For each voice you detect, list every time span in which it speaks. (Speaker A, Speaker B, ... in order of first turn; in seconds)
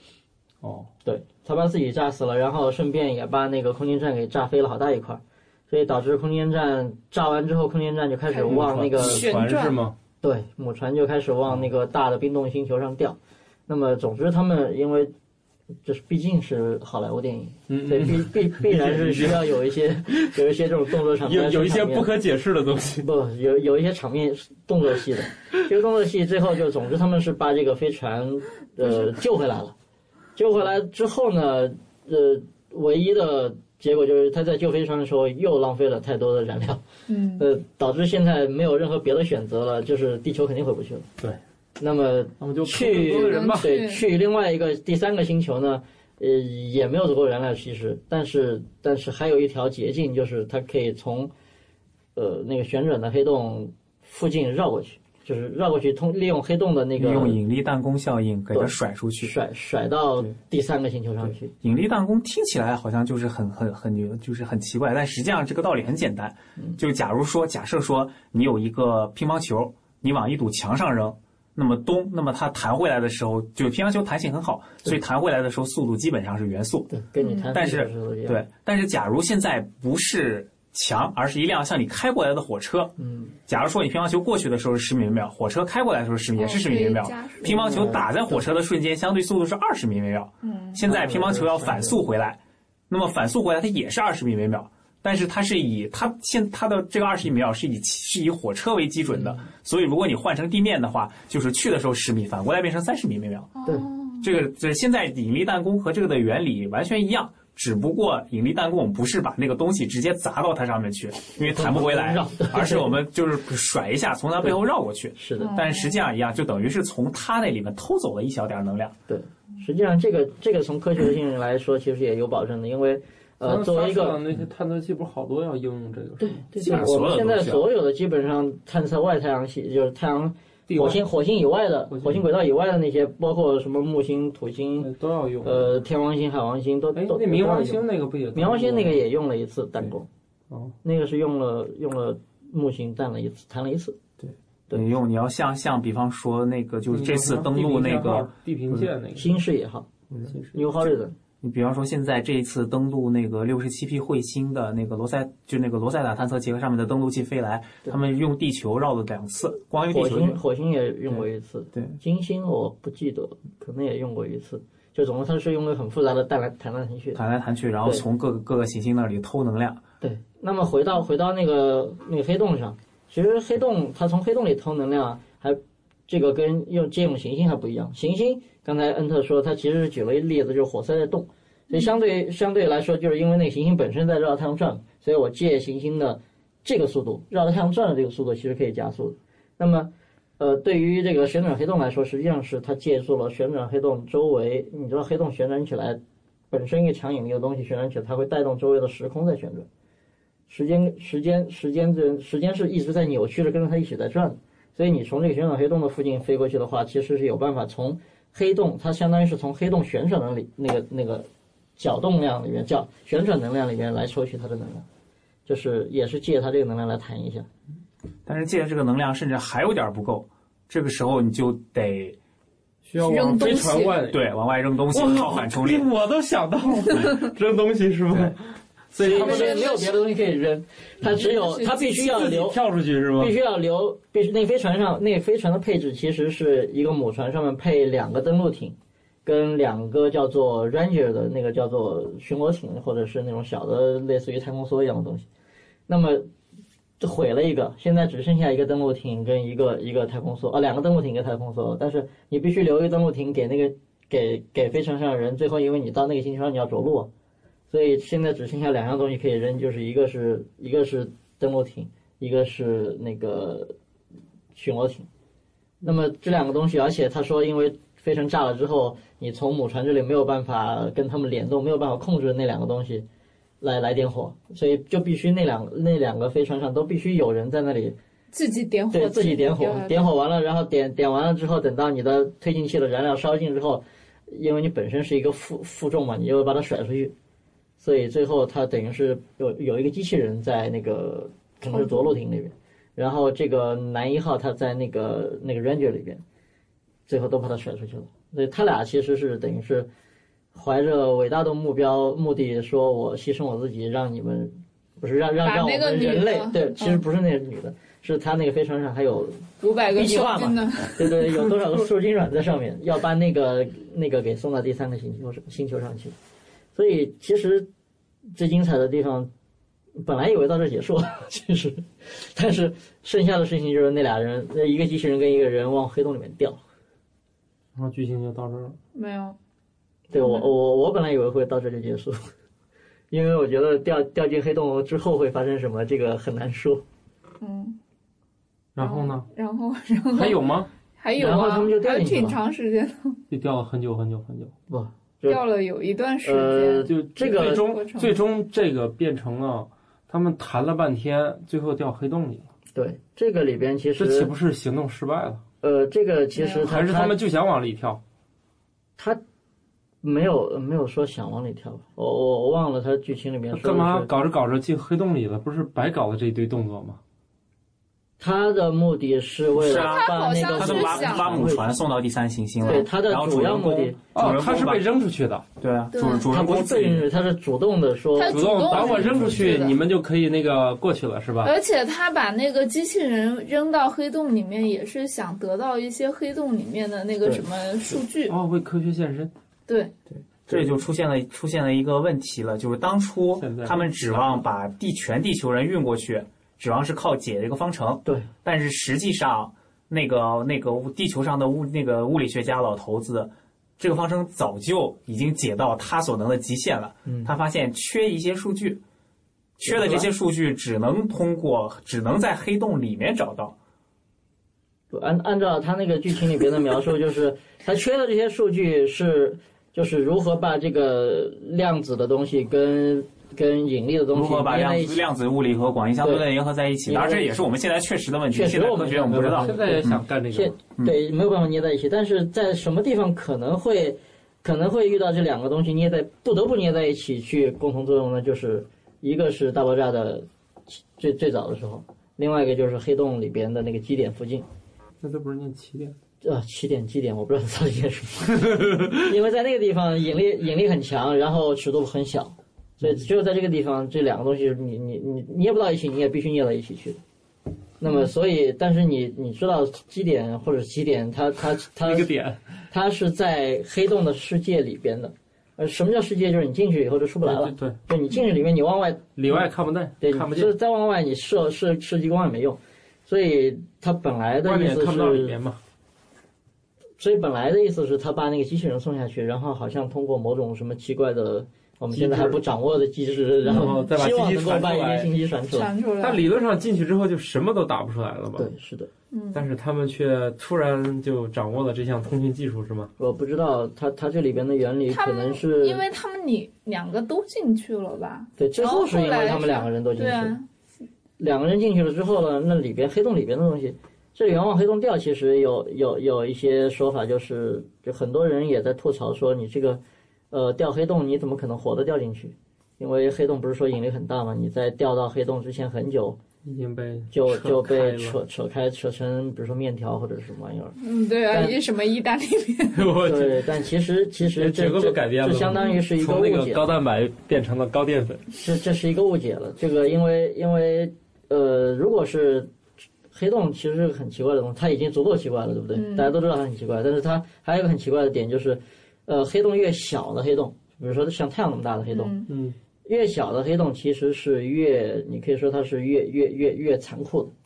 Speaker A: 0.6-0.9, 8.4-9.9, 17.7-19.5, 21.1-23.1, 42.4-43.7, 123.4-127.5, 130.7-131.0, 131.9-132.2, 134.8-135.8, 136.9-139.0, 140.5-140.7, 146.9-149.3, 150.1-150.9, 222.8-224.3, 224.9-229.7, 232.0-233.3, 327.7-328.8, 338.7-339.3, 340.1-340.7, 343.3-344.5, 346.9-352.5, 354.0-355.4, 356.6-358.0, 363.5-367.0, 374.1-375.4, 378.3-381.5, 388.3-389.3, 393.4-394.4, 429.1-430.6, 445.0-445.9, 448.4-448.9, 461.8-462.4, 467.2-467.8, 469.1-470.5, 474.4-475.6, 481.9-482.4, 483.4-485.1, 486.0-488.5, 489.3-492.9, 516.4-518.2, 522.7-523.5, 524.2-528.3, 542.3-542.6
Speaker B: 1.0-9.3, 10.2-13.2, 13.7-15.1, 15.8-22.1, 23.0-29.7, 30.4-36.8, 37.4-41.1, 41.8-51.3, 52.1-57.4, 58.5-61.5, 76.9-78.4, 83.0-83.3, 87.4-88.4, 90.8-92.0, 99.1-99.4, 111.4-113.0, 115.1-115.6, 119.1-124.2, 126.2-134.9, 135.4-140.1, 140.8-144.0, 149.1-149.9, 150.5-151.2, 159.9-167.2, 170.0-196.0, 196.5-199.7, 200.5-214.8, 215.4-217.5, 229.0-232.6, 233.2-245.2, 245.9-246.3, 247.0-257.1, 257.7-263.7, 264.5-265.1, 265.8-273.0, 273.6-277.9, 278.9-287.1, 287.8-296.2, 297.1-299.9, 300.5-316.1, 316.7-317.7, 318.3-319.3, 319.9-326.6, 330.1-332.3, 333.1-336.8, 341.1-342.4, 344.7-345.4, 346.2-347.6, 352.7-354.3, 355.6-357.1, 360.0-364.1, 368.2-371.8, 372.6-374.0, 376.3-379.6, 387.2-388.0, 407.1-407.3, 409.6-410.1, 414.9-425.0, 426.0-426.2, 426.9-427.4, 428.3-444.4, 446.2-457.0, 457.8-462.1, 462.7-469.5, 470.0-475.4, 477.0-485.7, 488.3-488.9, 493.0-495.8, 498.4-500.4, 501.2-516.2, 517.1-520.8, 521.3-521.6, 523.0-526.7, 528.4-532.5, 533.1-542.1, 542.8-547.3
Speaker C: 8.3-9.8, 37.1-37.4, 42.9-44.0, 77.2-77.5, 86.4-87.9, 90.4-90.8, 103.6-104.3, 115.4-116.0, 223.0-224.0, 229.0-230.0, 231.2-232.2, 278.3-280.1, 291.7-292.1, 305.4-307.0, 309.6-311.6, 328.9-329.4, 330.2-330.5, 337.4-337.8, 338.8-340.4, 341.0-343.2, 345.3-348.1, 356.4-356.8, 369.6-371.4, 372.6-372.9, 375.9-376.3, 378.2-379.8, 381.4-388.4, 389.7-389.9, 483.4-483.9, 485.5-486.2, 489.1-489.4, 494.9-500.4, 520.8-522.9, 535.7-536.1, 541.9-542.3
Speaker D: 57.0-59.3, 61.6-76.9, 77.5-82.9, 83.5-103.5, 104.2-119.0, 126.6-127.6, 144.7-148.3, 151.4-160.4, 167.1-169.8, 218.2-222.2, 224.0-225.8, 369.5-374.8, 375.6-377.1, 390.5-408.8, 409.6-413.5, 424.1-429.9